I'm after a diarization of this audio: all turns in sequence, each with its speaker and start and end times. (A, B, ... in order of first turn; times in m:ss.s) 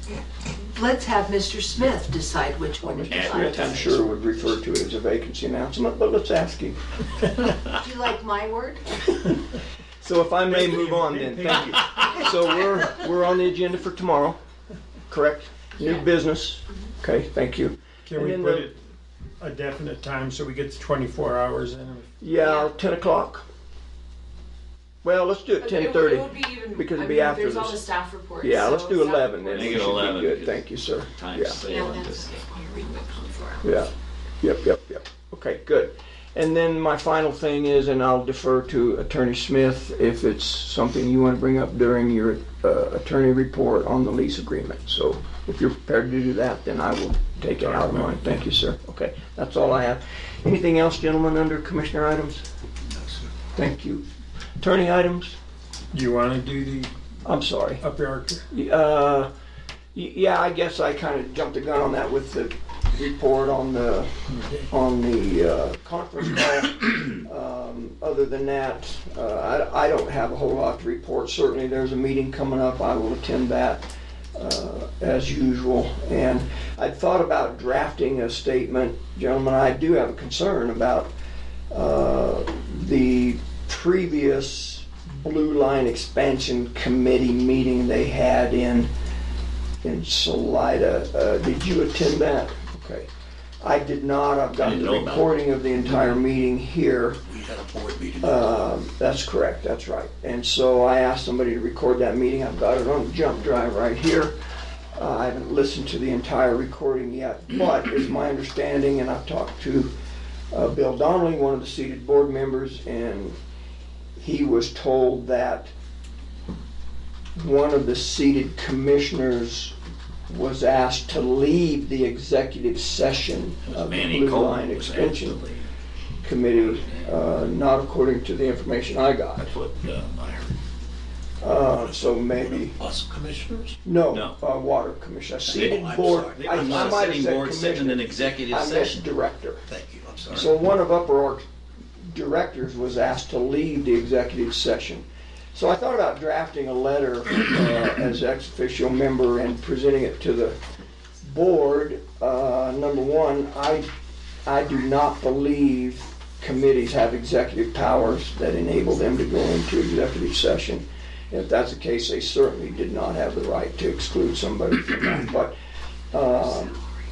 0:00.7-0:03.6 A
0:02.8-0:06.8 B
0:03.1-0:04.5 C
0:07.8-0:08.8 A
0:10.0-0:14.4 B
0:10.5-0:12.0 D
0:15.1-0:18.7 B
0:18.1-0:18.8 D
0:19.4-0:22.1 D
0:22.2-0:23.4 B
0:25.0-0:27.9 B
0:25.6-0:29.6 E
0:28.3-0:29.0 A
0:28.4-0:31.6 B
0:29.5-0:32.4 C
0:31.7-0:32.2 E
0:31.8-0:33.5 A
0:33.6-0:52.4 B
0:47.6-0:48.4 D
0:52.9-0:53.3 F
0:53.6-0:54.0 B
0:54.6-0:55.4 B
0:55.9-0:56.9 D
0:57.2-0:57.8 B
0:57.8-0:58.4 D
0:58.5-0:59.3 B
0:59.9-1:21.1 B
1:04.3-1:04.6 D
1:21.7-1:28.9 B
1:29.8-1:33.1 B
1:33.6-1:37.2 B
1:34.6-1:36.2 C
1:37.2-1:38.4 F
1:38.2-1:44.3 B
1:45.0-1:49.9 B
1:50.5-1:53.4 B
1:54.2-1:55.7 B
1:57.4-1:59.7 B
2:00.3-2:05.4 B
2:03.7-2:05.7 C
2:06.2-2:09.5 B
2:06.6-2:07.3 C
2:09.4-2:10.6 C
2:11.4-2:12.8 B
2:11.7-2:13.8 F
2:13.8-2:19.6 B
2:14.1-2:14.4 C
2:15.4-2:17.2 F
2:15.5-2:15.8 C
2:16.3-2:19.1 C
2:19.7-2:20.5 F
2:20.3-2:21.5 B
2:22.1-2:30.6 B
2:31.2-2:33.9 B
2:34.5-2:45.5 B
2:46.1-2:46.8 B